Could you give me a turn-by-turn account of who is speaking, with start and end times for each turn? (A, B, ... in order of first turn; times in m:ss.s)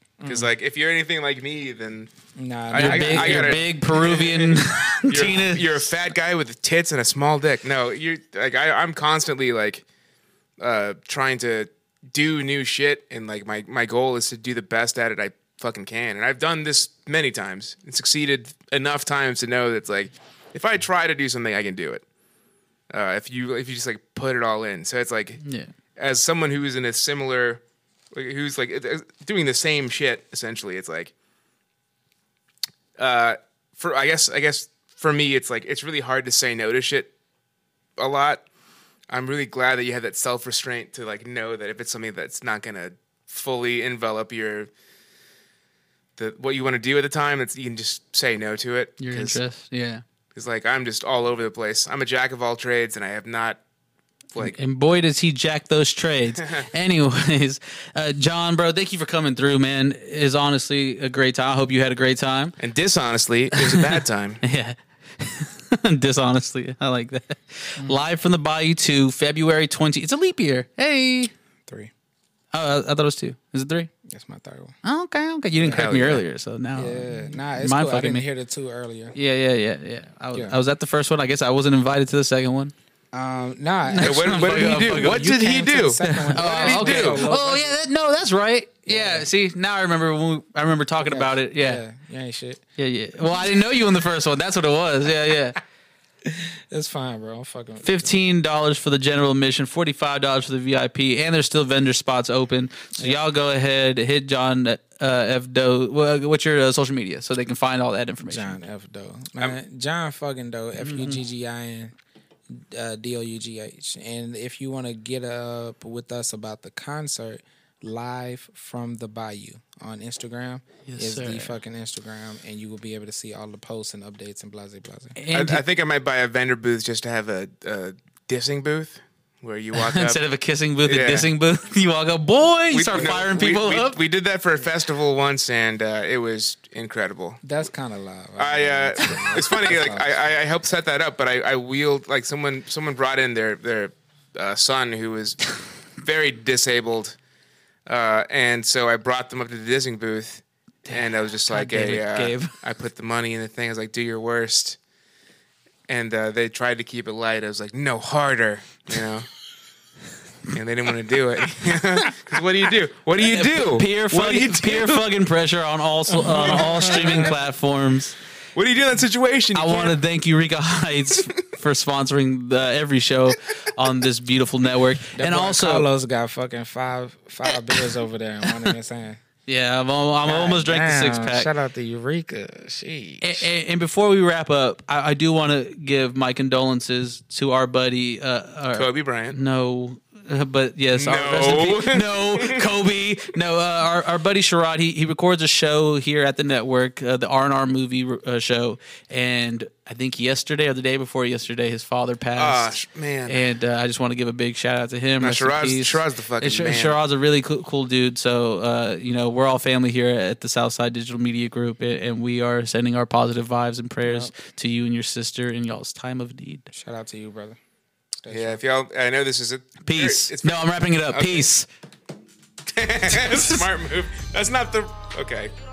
0:00.2-0:00.5 A
0:00.2-0:02.1 B
0:02.4-0:03.6 A
0:02.7-0:09.8 B
0:02.7-0:05.9 C
0:10.6-0:22.0 B
0:22.9-0:25.4 B
0:25.4-0:25.7 C
0:26.0-0:27.6 B
0:28.1-0:31.1 B
0:33.0-0:37.1 B
0:38.0-0:38.4 B
0:39.1-0:44.7 B
0:46.2-0:49.4 B
0:49.0-0:50.0 C
0:50.3-0:53.6 B
0:54.3-1:02.6 C
1:02.6-1:04.4 B
1:03.5-1:11.3 C
1:12.5-1:13.9 C
1:14.0-1:14.7 A
1:14.8-1:18.2 C
1:15.6-1:15.9 A
1:15.7-1:16.2 B
1:16.7-1:19.2 A
1:19.1-1:22.7 C
1:23.1-1:27.7 A
1:23.8-1:25.3 C
1:24.0-1:27.3 B
1:26.0-1:31.8 C
1:28.9-1:29.2 A
1:31.0-1:32.6 A
1:32.8-1:35.6 C
1:36.7-1:38.1 A
1:37.8-1:48.6 C
1:48.3-1:51.9 A
1:50.8-1:51.2 C
1:52.5-2:05.2 A
2:00.9-2:01.6 C
2:05.2-2:05.6 C
2:05.3-2:10.2 B
2:09.7-2:14.0 C
2:10.8-2:11.3 B
2:12.7-2:17.4 B
2:17.4-2:20.1 A
2:18.4-2:25.4 B
2:26.0-2:27.2 B
2:27.8-2:34.8 B
2:30.9-2:32.6 C
2:35.9-2:39.3 B
2:40.5-2:45.0 B
2:43.2-2:48.2 C
2:46.3-2:47.3 A
2:46.4-2:47.3 B
2:48.5-2:50.0 B
2:49.5-2:55.9 C
2:55.2-2:59.2 A
2:58.4-2:58.7 C
2:59.5-3:01.5 C
3:00.2-3:03.5 A
3:03.2-3:22.7 C
3:08.7-3:09.4 B
3:11.0-3:12.7 B
3:22.4-3:23.4 B
3:23.3-3:36.7 C
3:25.2-3:27.0 B
3:34.0-3:34.3 A
3:36.7-3:37.6 A
3:38.2-3:38.6 A
3:38.3-3:41.5 B
3:39.8-3:41.7 C
3:42.7-3:45.5 B
3:43.1-3:43.6 C